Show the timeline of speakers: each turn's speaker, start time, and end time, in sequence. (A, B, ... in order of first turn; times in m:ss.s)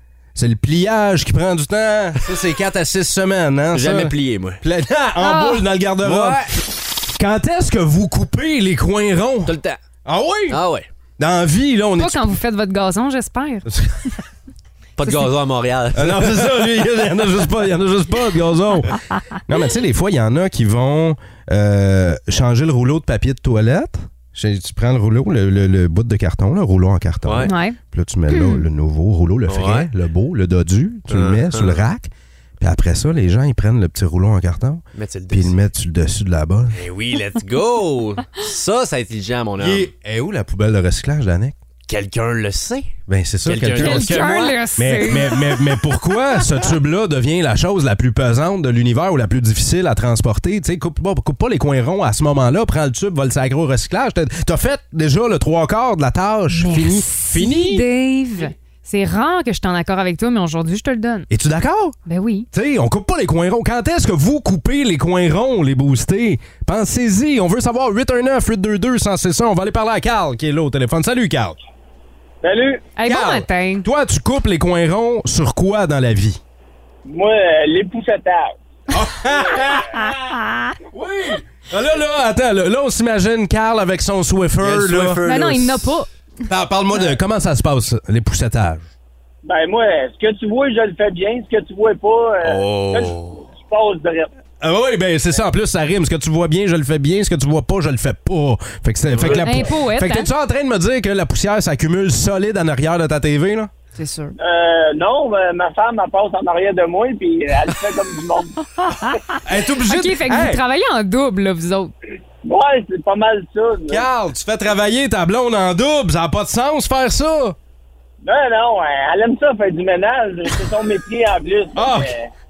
0:00.4-0:10.6 A
0:03.7-0:04.6 B
0:05.2-0:05.6 C
0:06.0-0:06.5 B
0:09.5-0:09.8 B
0:10.5-0:10.9 B
0:11.2-0:12.3 A
0:12.0-0:13.7 C
0:13.7-0:14.0 A
0:15.0-0:16.7 B
0:15.0-0:15.3 C
0:16.0-0:36.8 A
0:27.2-0:27.5 B
0:27.5-0:27.8 C
0:28.3-0:28.6 C
0:29.5-0:29.9 B
0:31.1-0:31.8 B
0:35.0-0:35.6 B
0:36.8-0:39.9 B
0:39.6-0:41.6 A
0:41.9-0:44.6 B
0:43.1-0:57.9 A
0:43.8-0:45.4 C
0:56.5-1:01.3 C
1:01.3-1:02.0 A
1:02.1-1:02.5 C
1:02.5-1:11.6 A
1:12.4-1:12.8 D
1:13.0-1:13.9 C
1:13.1-1:16.4 A
1:17.1-1:18.6 D
1:18.9-1:20.1 A
1:20.1-1:20.7 C
1:20.9-1:25.2 A
1:24.6-1:26.0 B
1:25.3-1:26.1 C
1:26.5-1:28.9 A
1:29.4-1:34.3 D
1:32.4-1:33.4 B
1:34.6-1:43.7 A
1:39.1-1:39.6 B
1:39.4-1:40.3 C
1:44.0-1:44.4 C
1:44.4-1:48.6 D
1:48.8-1:51.9 C
1:49.4-1:50.6 A
1:52.4-1:54.0 D
1:53.9-1:57.6 A
1:58.2-2:02.3 D
2:01.8-2:02.1 A